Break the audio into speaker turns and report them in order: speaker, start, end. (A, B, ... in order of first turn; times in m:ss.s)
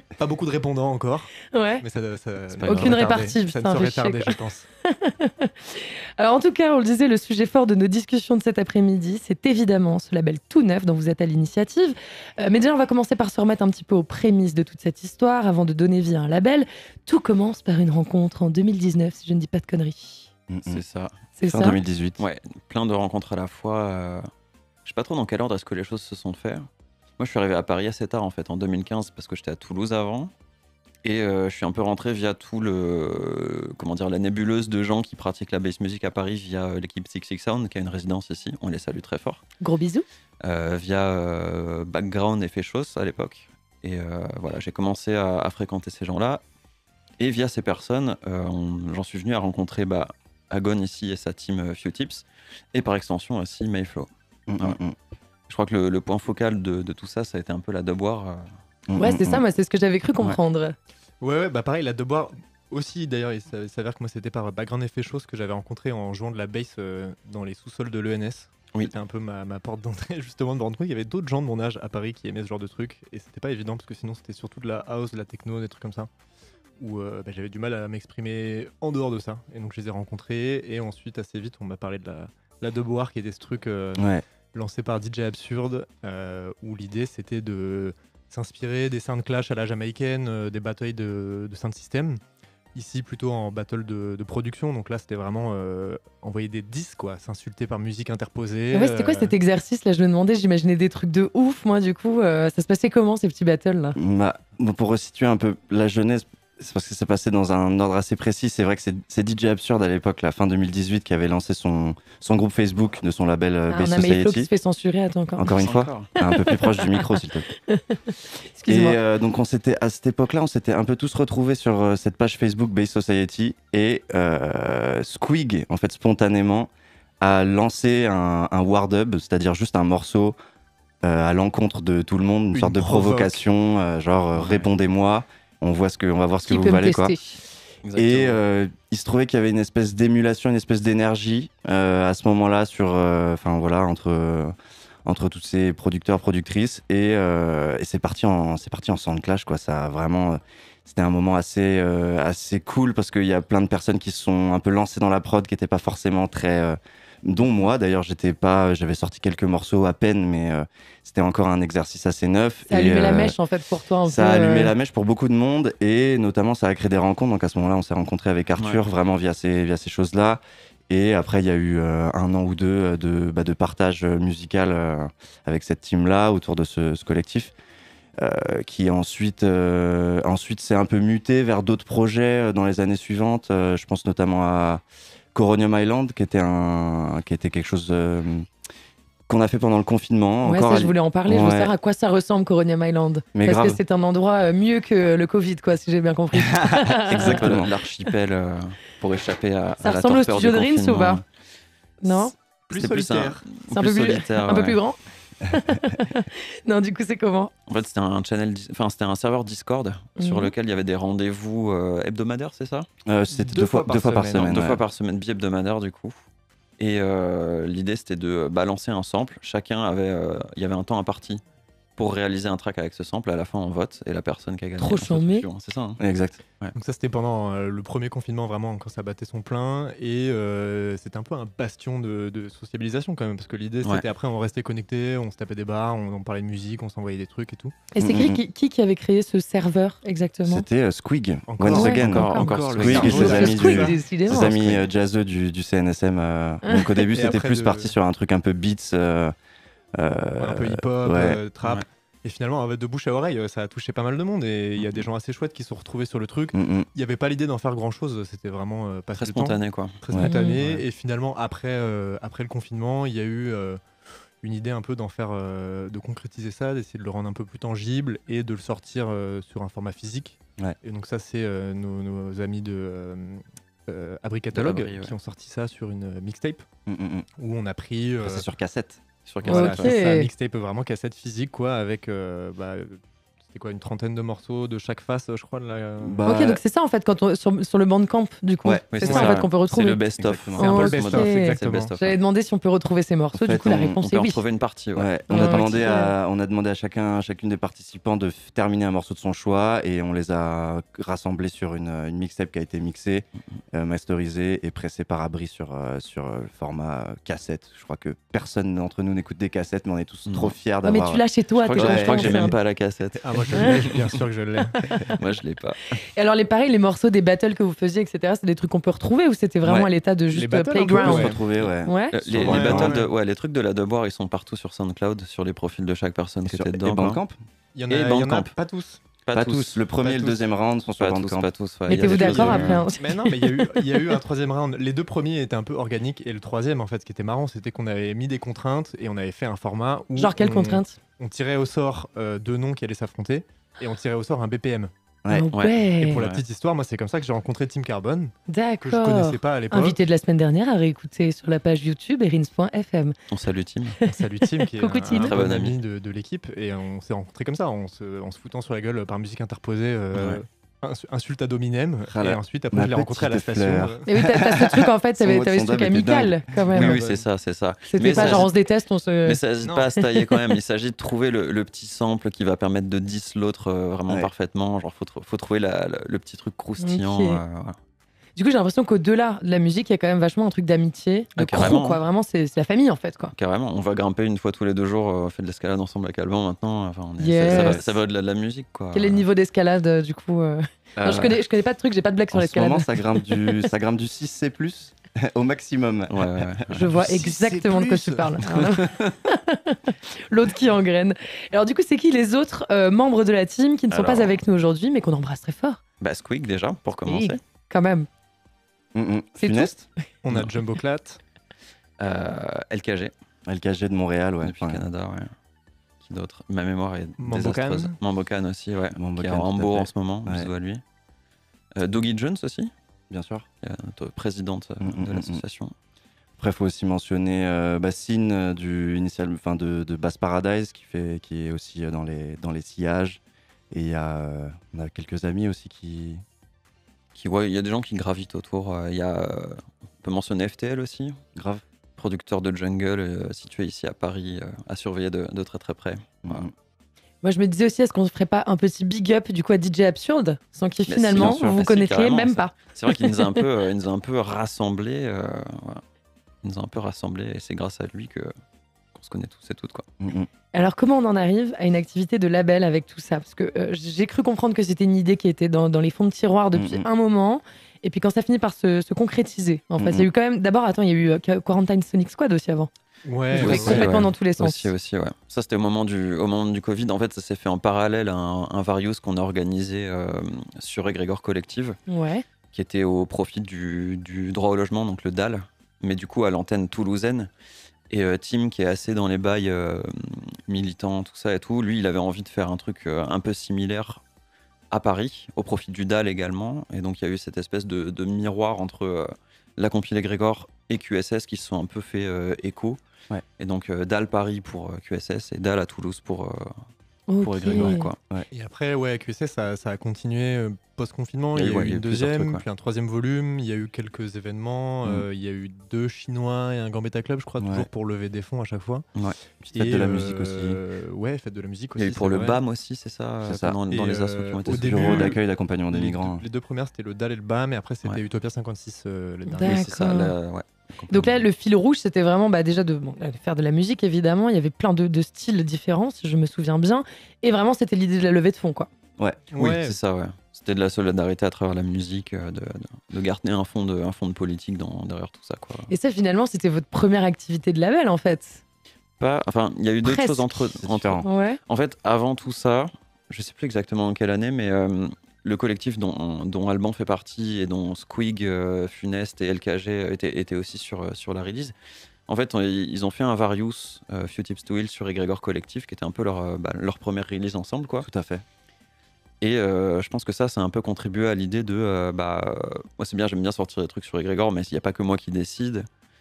0:00.2-0:04.7 A
0:01.5-0:01.8 B
0:02.5-0:03.1 C
0:02.6-0:20.3 B
0:20.5-0:20.8 D
0:20.6-0:21.1 C
0:21.4-0:21.8 B
0:21.4-0:22.2 D
0:22.2-0:24.3 C
0:24.9-0:30.3 C
0:31.0-0:39.4 C
0:39.6-0:40.0 B
0:40.4-0:46.4 C
0:47.2-0:54.8 C
0:54.5-0:55.0 D
0:55.5-0:58.5 C
0:58.9-0:59.4 D
0:59.0-1:00.8 B
1:01.2-1:16.1 A
1:16.8-1:32.2 A
1:24.0-1:24.2 D
1:32.7-1:39.4 A
1:38.7-1:44.0 B
1:44.0-1:54.5 D
1:53.7-1:55.5 B
1:55.4-1:57.5 D
1:55.5-1:56.1 C
1:56.2-1:59.0 B
1:58.7-2:06.7 D
2:07.2-2:10.4 D
2:11.0-2:17.2 D
2:12.5-2:13.4 A
2:14.4-2:14.7 C
2:16.5-2:17.4 B
2:17.8-2:18.4 C
2:18.0-2:24.5 D
2:25.0-2:43.4 D
2:42.7-2:44.7 B
2:44.1-2:57.5 D
2:58.2-3:04.8 D
3:05.3-3:08.5 D
3:09.3-3:11.7 D
3:10.4-3:17.5 B
3:13.3-3:13.8 D
3:16.5-3:17.7 D
3:17.1-3:21.2 C
3:19.8-3:21.2 B
3:22.0-3:22.3 B
3:22.7-3:23.4 A
3:22.7-3:24.8 C
3:23.7-3:27.5 B
3:27.7-3:32.9 C
3:30.2-3:30.5 B
3:33.0-3:34.8 D
3:33.3-3:34.5 A
3:34.4-3:36.2 C
3:36.8-3:41.4 C
3:42.0-3:46.0 C
3:44.8-3:45.5 B
3:46.0-3:46.4 D
3:46.8-3:57.8 A
3:57.9-4:00.7 B
3:58.0-3:58.4 D
4:00.5-4:09.3 D
4:01.5-4:04.0 A
4:01.7-4:04.8 B
4:02.0-4:03.5 C
4:06.6-4:07.1 B
4:07.1-4:07.9 A
4:10.0-4:11.4 D
4:10.4-4:23.8 A
4:14.8-4:15.0 C
4:16.5-4:16.9 D
4:19.2-4:20.0 C
4:20.2-4:20.6 B
4:20.6-4:20.8 C
4:24.4-4:36.7 A
4:34.5-4:35.1 C
4:36.9-4:37.3 D
4:37.4-4:38.4 A
4:38.2-4:39.0 D
4:39.3-4:39.9 C
4:39.4-4:46.2 A
4:39.5-4:40.3 B
4:46.0-4:46.6 D
4:46.2-4:50.0 B
4:48.9-4:52.2 C
4:49.0-4:49.4 A
4:50.2-4:50.8 D
4:50.6-4:51.9 A
4:50.6-4:54.4 B
4:53.3-4:53.9 D
4:53.6-4:55.9 C
4:55.0-5:11.2 D
4:55.3-4:56.1 B
5:10.3-5:10.5 C
5:10.8-5:12.6 B
5:11.6-5:14.1 C
5:11.8-5:12.4 D
5:13.2-5:14.9 A
5:14.8-5:15.2 B
5:14.8-5:15.9 C
5:16.0-5:22.2 B
5:19.6-5:19.9 D
5:20.3-5:21.4 A
5:21.0-5:23.0 D
5:22.1-5:27.2 C
5:22.3-5:23.1 A
5:26.4-5:27.4 D
5:27.8-5:29.0 A
5:27.9-5:28.5 C
5:29.2-5:29.8 C
5:29.3-5:31.5 D
5:30.0-5:30.4 A
5:31.0-5:32.9 C
5:31.9-5:34.0 B
5:32.0-5:32.8 D
5:32.4-5:44.9 A
5:40.2-5:41.0 B
5:45.2-5:45.5 D
5:45.3-5:46.2 B
5:45.5-5:46.4 C
5:46.0-5:50.0 A
5:48.5-5:53.2 B
5:53.3-5:54.0 C
5:54.0-6:04.1 A
5:54.4-5:55.4 B
5:55.1-5:55.8 C
6:00.1-6:00.4 C
6:02.1-6:06.4 D
6:04.1-6:07.0 B
6:06.7-6:07.2 A
6:06.7-6:08.5 C
6:07.9-6:09.4 B
6:08.0-6:08.5 A
6:09.2-6:17.8 C
6:09.6-6:09.9 A
6:10.0-6:10.4 B
6:16.8-6:17.4 B
6:18.4-6:23.3 B
6:21.4-6:22.0 C
6:23.4-6:29.3 C
6:27.2-6:27.9 B
6:27.5-6:27.9 D
6:28.9-6:33.7 B
6:31.0-6:31.4 C
6:32.3-6:39.1 D
6:36.1-6:37.0 C
6:36.7-6:45.8 B
6:43.9-6:44.4 C
6:46.0-6:47.4 C
6:47.1-6:48.1 B
6:49.0-6:49.9 D
6:49.4-6:49.7 B
6:50.2-6:51.2 A
6:50.3-6:50.6 C
6:52.0-6:53.1 C
6:53.5-6:54.8 D
6:54.4-6:55.3 C
6:56.0-7:00.8 C
6:57.2-6:58.0 A
6:59.0-7:00.5 D
7:01.8-7:02.7 C
7:03.1-7:03.5 D
7:03.6-7:05.7 C
7:04.8-7:05.4 D
7:06.4-7:13.2 D
7:13.7-7:16.2 D
7:17.2-7:21.2 C
7:21.4-7:21.6 D
7:22.0-7:26.5 C
7:26.2-7:26.5 D
7:27.2-7:33.4 B
7:30.9-7:35.8 C
7:31.1-7:31.6 D
7:36.4-7:38.3 C
7:38.9-7:39.9 C
7:40.0-7:40.3 D
7:40.5-7:52.7 B
7:46.5-7:46.9 D
7:49.8-7:50.1 D
7:53.0-7:54.0 A
7:53.3-7:54.7 B
7:53.3-8:01.8 C
8:01.9-8:02.2 B
8:02.5-8:07.3 C
8:07.9-8:14.0 C
8:14.7-8:22.8 C
8:23.4-8:26.6 C
8:27.1-8:27.9 B
8:27.2-8:28.0 C
8:27.3-8:28.3 D
8:28.3-8:38.9 A
8:31.3-8:32.4 C
8:37.4-8:37.7 D
8:39.4-8:40.6 D
8:39.5-8:42.4 A
8:41.8-8:45.2 C
8:43.2-8:43.6 D
8:43.7-8:49.7 A
8:44.5-8:46.2 D
8:49.3-8:50.2 B
8:49.4-8:51.2 C
8:50.9-8:58.7 B
8:59.3-8:59.8 A
8:59.4-9:05.7 C
9:05.7-9:08.4 B
9:09.0-9:21.5 C
9:09.8-9:10.3 B
9:10.6-9:11.0 D
9:11.0-9:11.4 B
9:22.1-9:27.9 C
9:27.8-9:28.2 D
9:29.2-9:35.7 C